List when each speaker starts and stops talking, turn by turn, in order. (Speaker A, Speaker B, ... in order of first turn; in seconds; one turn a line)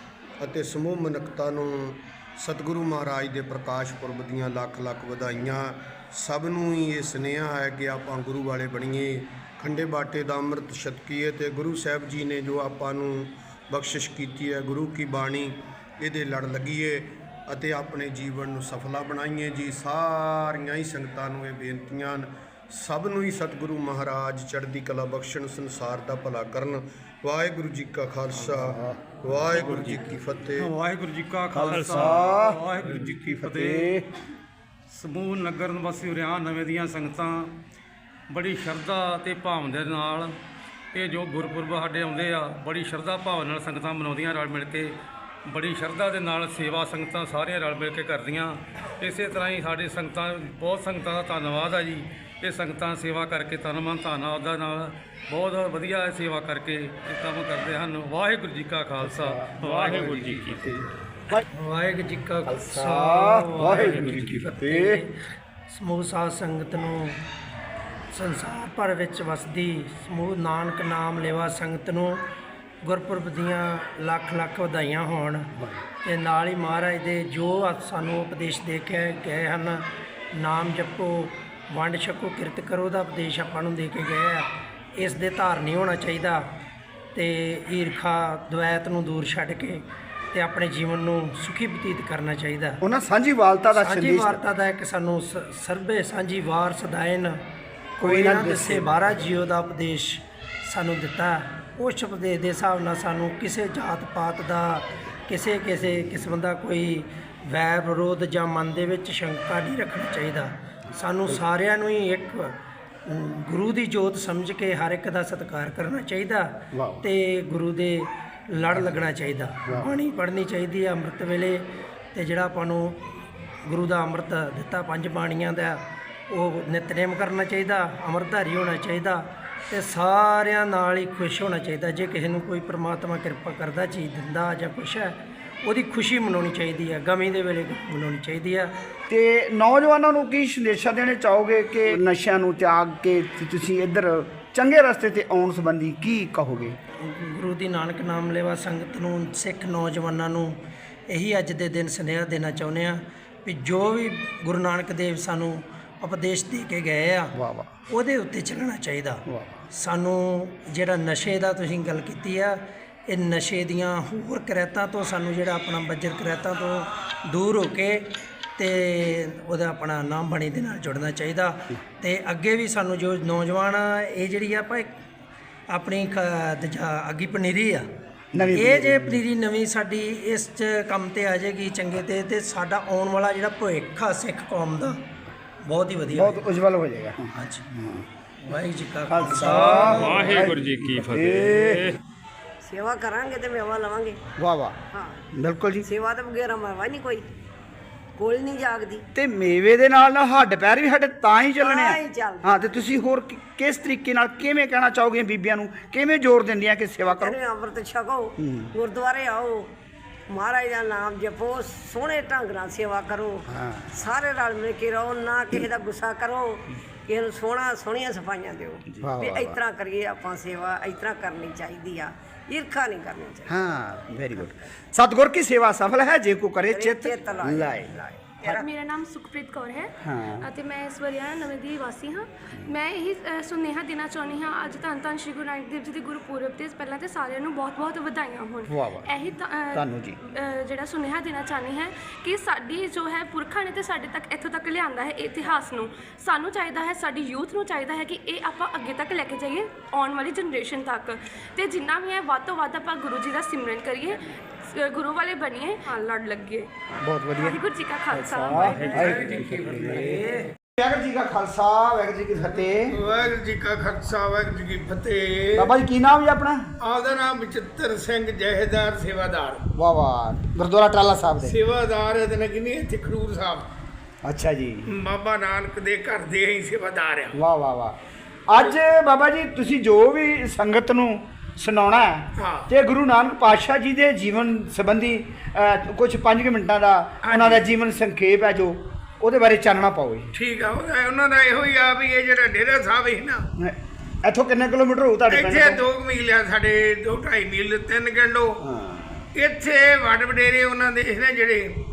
Speaker A: 0.4-30.7
Speaker B: 28.6-29.0
Speaker C: 29.5-30.0
Speaker C: 30.6-34.0
Speaker B: 31.5-34.1
Speaker C: 34.9-37.5
Speaker C: 38.3-40.3
Speaker C: 40.9-44.9
Speaker C: 45.4-60.9
Speaker B: 59.1-61.4
Speaker D: 61.5-65.1
Speaker B: 62.4-65.0
Speaker D: 65.7-67.2
Speaker D: 68.1-72.2
Speaker D: 72.8-86.5
Speaker D: 87.1-92.8
Speaker B: 92.8-94.4
Speaker D: 93.8-97.4
Speaker D: 98.0-123.0
Speaker B: 98.0-99.3
Speaker B: 116.7-117.0
Speaker D: 123.6-138.7
Speaker B: 139.1-146.8
Speaker D: 147.0-150.6
Speaker D: 151.1-157.3
Speaker B: 157.3-157.7
Speaker D: 157.9-174.9
Speaker B: 159.3-159.6
Speaker D: 175.7-177.8
Speaker B: 178.3-179.2
Speaker D: 178.4-185.0
Speaker D: 185.6-186.4
Speaker B: 186.1-188.1
Speaker D: 187.3-187.6
Speaker D: 188.4-190.4
Speaker B: 189.1-192.0
Speaker C: 190.2-191.1
Speaker E: 192.6-194.2
Speaker B: 194.4-194.8
Speaker E: 194.9-195.2
Speaker B: 195.3-195.9
Speaker E: 195.8-197.2
Speaker E: 198.2-199.0
Speaker B: 199.1-207.4
Speaker E: 201.6-202.5
Speaker E: 207.1-209.7
Speaker B: 208.4-208.7
Speaker E: 210.3-223.5
Speaker B: 213.5-213.9
Speaker B: 218.9-219.6
Speaker B: 223.5-228.7
Speaker E: 226.7-227.9
Speaker F: 228.4-256.7
Speaker B: 230.0-230.5
Speaker B: 238.7-239.1
Speaker B: 239.7-240.2
Speaker B: 257.0-260.2
Speaker F: 257.4-259.1
Speaker D: 258.9-260.2
Speaker B: 260.8-263.0
Speaker G: 262.9-265.7
Speaker B: 265.5-266.6
Speaker G: 266.8-269.6
Speaker B: 269.7-271.6
Speaker G: 271.4-273.6
Speaker B: 274.2-274.9
Speaker G: 274.9-277.3
Speaker B: 277.3-278.0
Speaker B: 278.5-290.3
Speaker G: 282.4-282.7
Speaker G: 287.2-287.6
Speaker G: 290.3-293.4
Speaker B: 293.6-295.8
Speaker G: 295.3-298.6
Speaker B: 298.6-299.3
Speaker G: 299.3-301.7